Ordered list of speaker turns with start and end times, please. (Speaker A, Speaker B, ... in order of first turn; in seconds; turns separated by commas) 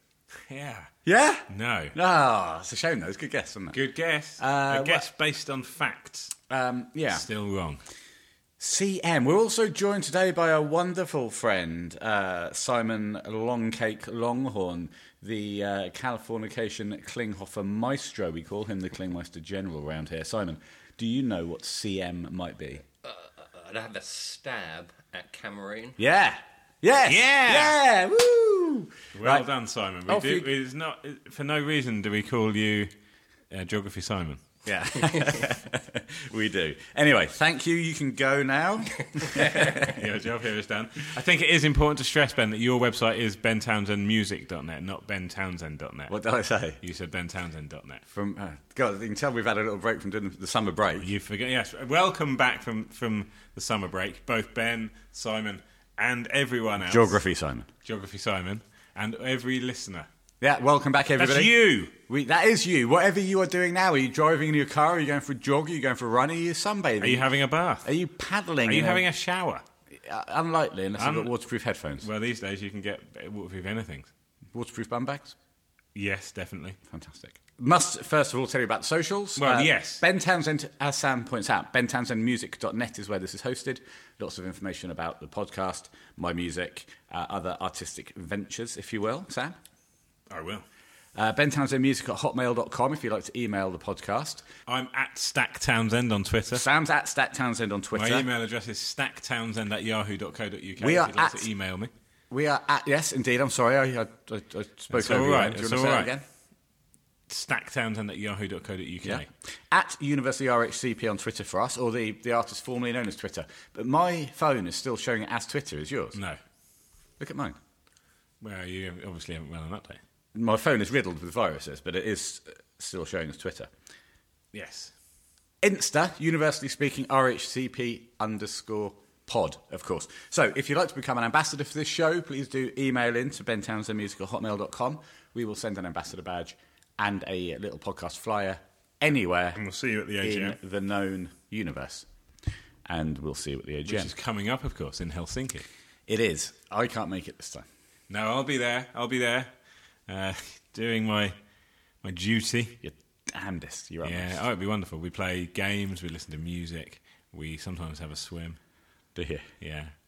Speaker A: 0.5-0.9, Speaker B: 1.0-3.8, Speaker A: 1.5-1.9, Speaker A: 3.7-6.3, Speaker B: 4.4-5.1, Speaker B: 6.5-7.2, Speaker A: 7.1-7.8, Speaker B: 8.6-22.8, Speaker C: 23.0-26.0, Speaker B: 26.0-29.5, Speaker A: 27.0-27.8, Speaker A: 29.1-32.9, Speaker B: 30.1-30.5, Speaker A: 33.5-34.4, Speaker B: 34.6-40.1, Speaker A: 39.3-46.1, Speaker B: 46.1-46.8, Speaker A: 46.8-48.0, Speaker B: 48.1-51.1, Speaker A: 51.0-57.2, Speaker B: 56.8-57.7, Speaker A: 57.8-60.1, Speaker B: 60.4-67.3, Speaker A: 61.2-61.9, Speaker A: 67.0-67.9, Speaker B: 67.8-69.0, Speaker A: 68.6-69.6, Speaker B: 70.0-72.1, Speaker A: 71.0-71.3, Speaker A: 72.0-74.1, Speaker B: 74.5-75.3, Speaker A: 75.9-76.8, Speaker B: 76.9-89.6, Speaker A: 79.4-80.0, Speaker A: 90.3-90.6, Speaker B: 91.1-94.4, Speaker A: 94.7-96.6, Speaker B: 96.5-98.3, Speaker A: 97.9-101.9, Speaker B: 100.8-101.5, Speaker B: 102.3-106.2, Speaker A: 104.9-106.1, Speaker A: 107.3-109.3, Speaker B: 109.0-116.2, Speaker A: 116.1-116.4, Speaker B: 117.2-117.5, Speaker A: 118.4-120.0, Speaker B: 120.3-123.7, Speaker A: 124.5-124.9, Speaker B: 125.6-139.6, Speaker A: 139.6-140.6, Speaker B: 140.2-142.1, Speaker B: 142.8-144.1, Speaker A: 143.8-145.6, Speaker B: 146.1-147.7, Speaker A: 148.1-149.5, Speaker A: 150.1-151.4, Speaker A: 152.0-152.8, Speaker B: 152.8-154.3, Speaker A: 154.0-158.6, Speaker B: 159.1-159.5, Speaker A: 159.6-159.9